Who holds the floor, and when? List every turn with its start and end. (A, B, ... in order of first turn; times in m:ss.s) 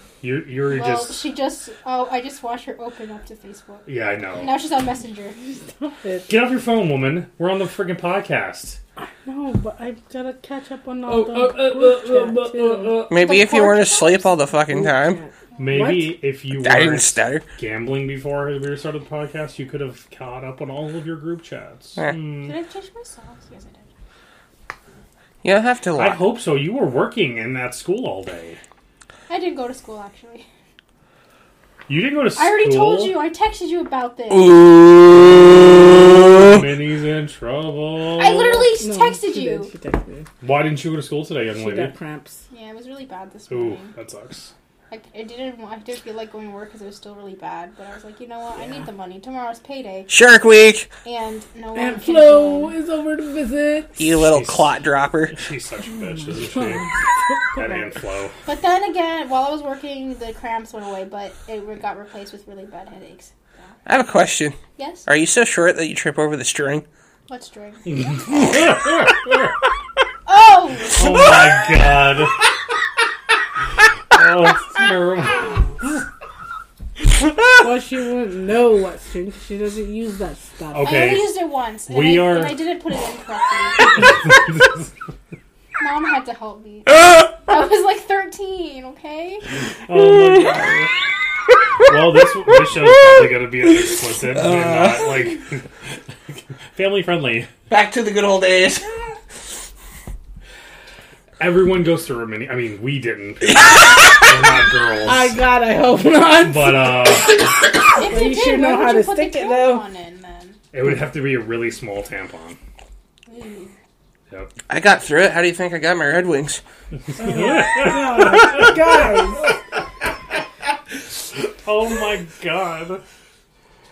0:00.2-0:01.2 A
0:00.7-0:05.4 B
0:03.8-0:04.6 A
0:05.4-0:06.3 C
0:06.3-0:08.8 A
0:09.0-0:13.0 C
0:11.0-0:13.3 A
0:13.1-0:15.2 D
0:13.2-0:14.4 B
0:14.7-0:16.1 C
0:15.5-0:15.8 B
0:15.6-0:22.6 A
0:16.5-0:17.4 D
0:22.4-0:23.9 B
0:25.4-0:26.2 D
0:26.0-0:28.6 A
0:29.3-0:30.4 B
0:31.9-0:33.2 A
0:32.4-0:34.6 B
0:34.3-0:36.6 D
0:36.3-0:38.7 A
0:38.2-0:39.7 B
0:38.8-0:40.3 C
0:40.4-0:41.9 A
0:41.5-0:42.4 C
0:42.5-0:43.9 B
0:43.5-0:44.5 A
0:44.9-0:50.1 B
0:50.1-0:50.9 D
0:51.0-0:52.7 B
0:51.8-0:54.0 C
0:54.0-0:55.3 D
0:54.1-0:54.7 A
0:55.3-0:56.9 A
0:56.2-0:57.8 C
0:57.5-0:58.3 A
0:58.4-1:03.7 B
1:03.8-1:06.8 D
1:04.8-1:05.1 B
1:07.3-1:07.8 B
1:07.8-1:09.6 A
1:10.2-1:11.6 B
1:11.0-1:12.4 A
1:14.1-1:16.0 A
1:17.6-1:21.0 C
1:20.7-1:21.3 A
1:20.8-1:24.2 B
1:21.9-1:22.6 A
1:24.2-1:24.9 A
1:25.8-1:29.4 B
1:29.8-1:30.9 A
1:29.9-1:30.8 D
1:31.8-1:37.5 A
1:32.6-1:35.3 D
1:37.7-1:38.9 D
1:41.4-1:45.4 A
1:43.5-1:44.2 D
1:45.0-1:49.8 C
1:46.4-1:47.4 A
1:48.0-1:50.6 B
1:50.7-1:52.6 A
1:53.2-1:53.7 B
1:54.7-1:56.6 D
1:57.2-1:59.5 C
1:57.2-2:00.0 A
2:00.9-2:03.0 A